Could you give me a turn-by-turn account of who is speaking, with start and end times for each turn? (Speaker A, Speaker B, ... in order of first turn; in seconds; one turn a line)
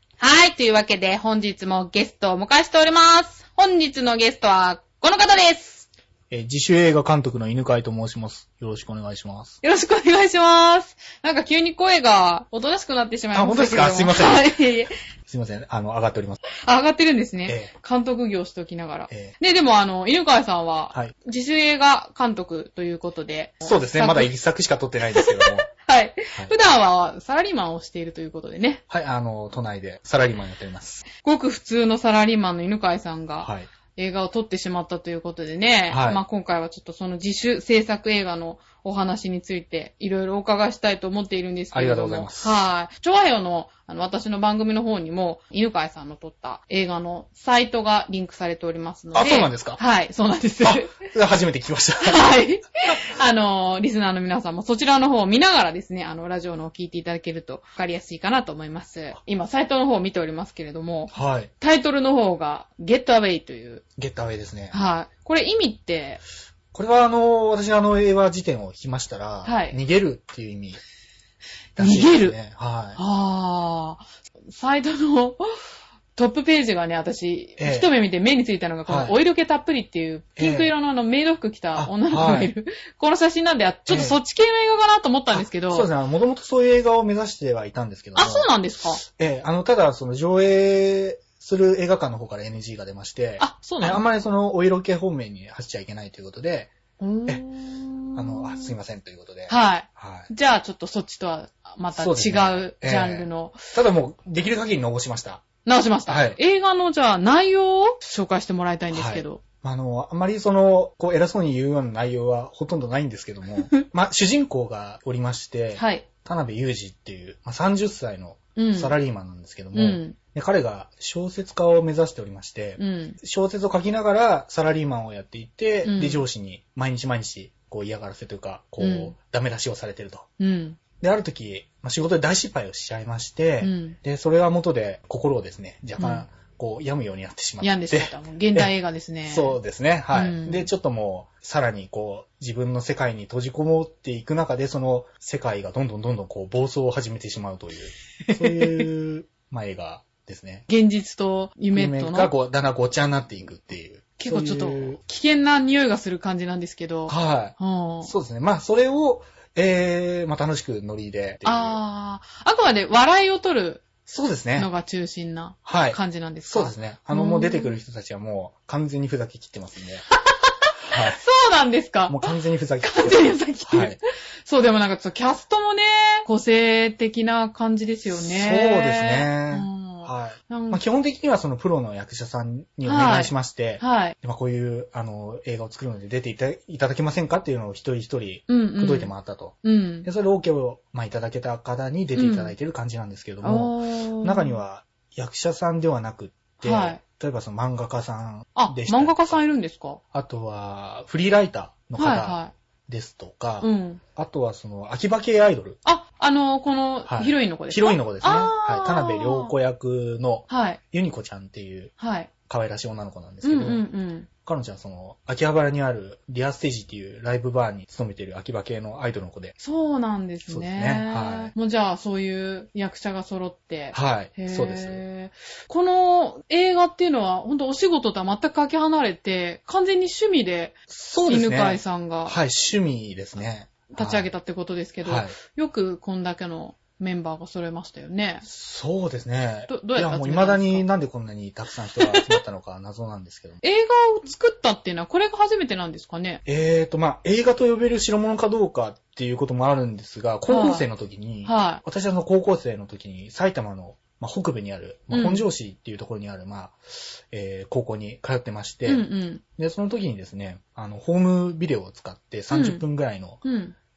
Speaker A: 0.2-5.8
Speaker B: 6.3-9.6
Speaker A: 9.6-14.9
Speaker B: 13.3-14.4
Speaker B: 15.3-16.4
Speaker A: 16.6-24.3
Speaker B: 19.1-19.3
Speaker B: 23.6-25.7
Speaker A: 25.1-28.8
Speaker B: 28.9-31.0
Speaker A: 31.2-51.0
Speaker B: 33.4-33.7
Speaker B: 35.9-36.2
Speaker B: 41.7-42.6
Speaker B: 49.1-49.8
Speaker B: 50.6-52.2
Speaker A: 52.0-63.8
Speaker B: 61.1-61.5
Speaker B: 64.0-64.8
Speaker A: 64.7-66.2
Speaker B: 66.7-70.8
Speaker A: 69.4-69.8
Speaker B: 71.8-73.0
Speaker A: 71.8-72.3
Speaker A: 73.0-75.4
Speaker A: 76.1-85.9
Speaker B: 77.6-77.9
Speaker B: 78.9-79.2
Speaker B: 80.4-80.7
Speaker B: 81.7-82.5
Speaker B: 83.9-84.2
Speaker B: 85.3-96.7
Speaker A: 88.2-89.0
Speaker A: 93.4-94.0
Speaker A: 97.0-98.7
Speaker B: 98.1-100.3
Speaker A: 99.5-103.6
Speaker B: 101.9-105.4
Speaker A: 105.6-109.4
Speaker B: 106.1-106.4
Speaker B: 108.9-130.3
Speaker A: 115.8-116.0
Speaker A: 118.5-119.0
Speaker A: 119.7-120.2
Speaker A: 122.8-123.2
Speaker A: 125.8-126.2
Speaker A: 128.8-129.1
Speaker A: 130.4-130.8
Speaker B: 131.0-138.7
Speaker A: 133.6-134.0
Speaker A: 136.0-136.2
Speaker A: 137.6-139.6
Speaker B: 139.2-150.6
Speaker A: 140.1-140.7
Speaker A: 148.2-148.9
Speaker A: 150.7-152.3
Speaker B: 151.7-155.0
Speaker A: 154.2-158.1
Speaker B: 157.1-161.8
Speaker A: 161.4-163.9
Speaker B: 164.1-164.7
Speaker A: 164.6-167.8
Speaker B: 165.6-170.0
Speaker A: 170.2-180.8
Speaker B: 170.9-171.2
Speaker B: 172.1-174.0
Speaker B: 178.1-199.4
Speaker A: 182.8-184.1
Speaker A: 188.5-189.1
Speaker A: 189.6-190.1
Speaker A: 192.1-192.6
Speaker A: 193.4-194.6
Speaker A: 196.6-197.0
Speaker A: 198.6-200.0
Speaker B: 200.1-205.8
Speaker A: 202.0-202.5
Speaker A: 203.6-204.0
Speaker A: 205.8-209.5
Speaker B: 207.0-211.9
Speaker A: 210.5-210.8
Speaker A: 212.0-212.3
Speaker B: 212.5-213.8
Speaker A: 213.4-214.3
Speaker B: 214.4-219.5
Speaker A: 219.6-230.8
Speaker B: 220.5-221.5
Speaker B: 223.9-225.0
Speaker B: 230.9-234.3
Speaker A: 231.2-232.4
Speaker A: 233.9-238.4
Speaker B: 235.0-235.3
Speaker B: 238.4-243.6
Speaker A: 239.7-240.9
Speaker A: 242.0-242.4
Speaker A: 243.6-246.4
Speaker B: 246.4-259.1
Speaker A: 250.5-250.8
Speaker A: 251.4-251.8
Speaker A: 255.1-255.4
Speaker A: 258.9-259.4
Speaker B: 259.6-263.4
Speaker A: 262.5-262.8
Speaker A: 263.4-263.7